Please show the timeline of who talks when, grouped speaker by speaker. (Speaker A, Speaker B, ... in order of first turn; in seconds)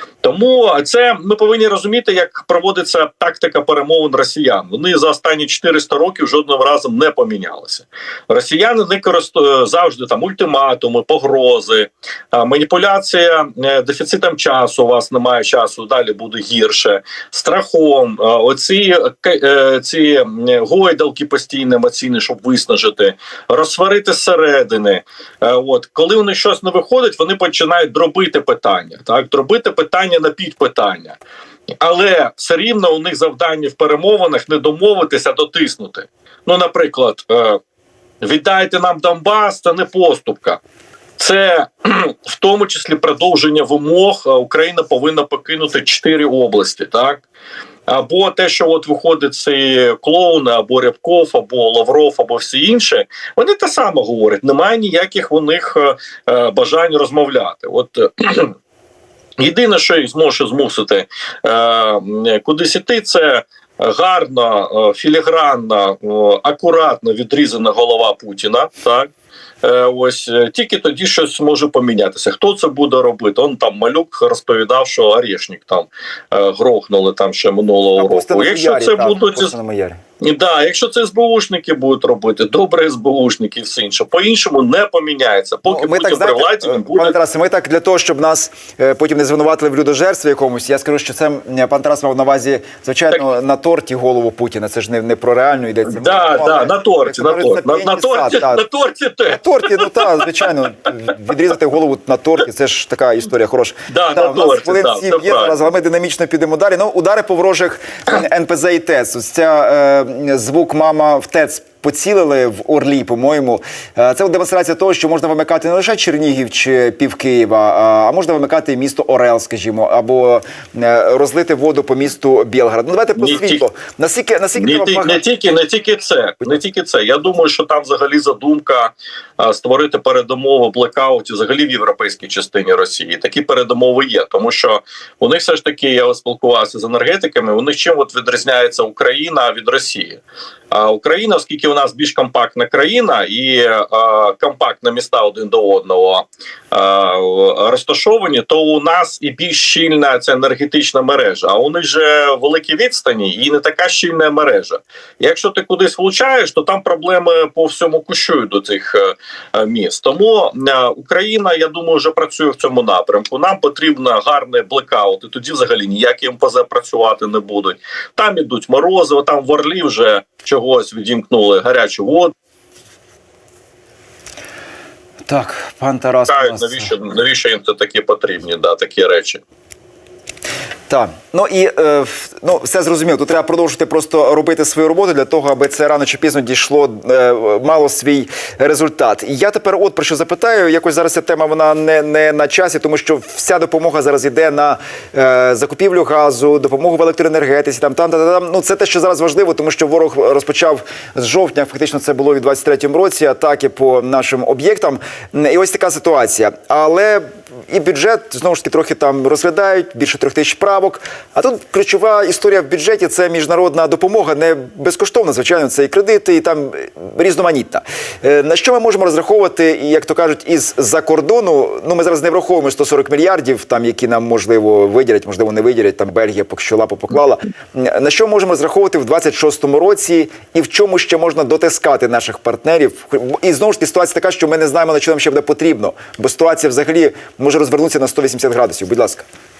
Speaker A: 0.2-31.2, 31.8-37.6, 38.2-40.6, 41.2-47.2, 47.9-58.5, 59.4-69.1, 69.6-79.5, 80.2-87.2, 95.9-100.5, 103.9-105.5, 123.2-123.6, 124.6-172.3, 176.3-179.4
Speaker B: 78.0-80.0, 85.7-98.6, 99.3-125.2, 175.3-176.9, 180.9-239.2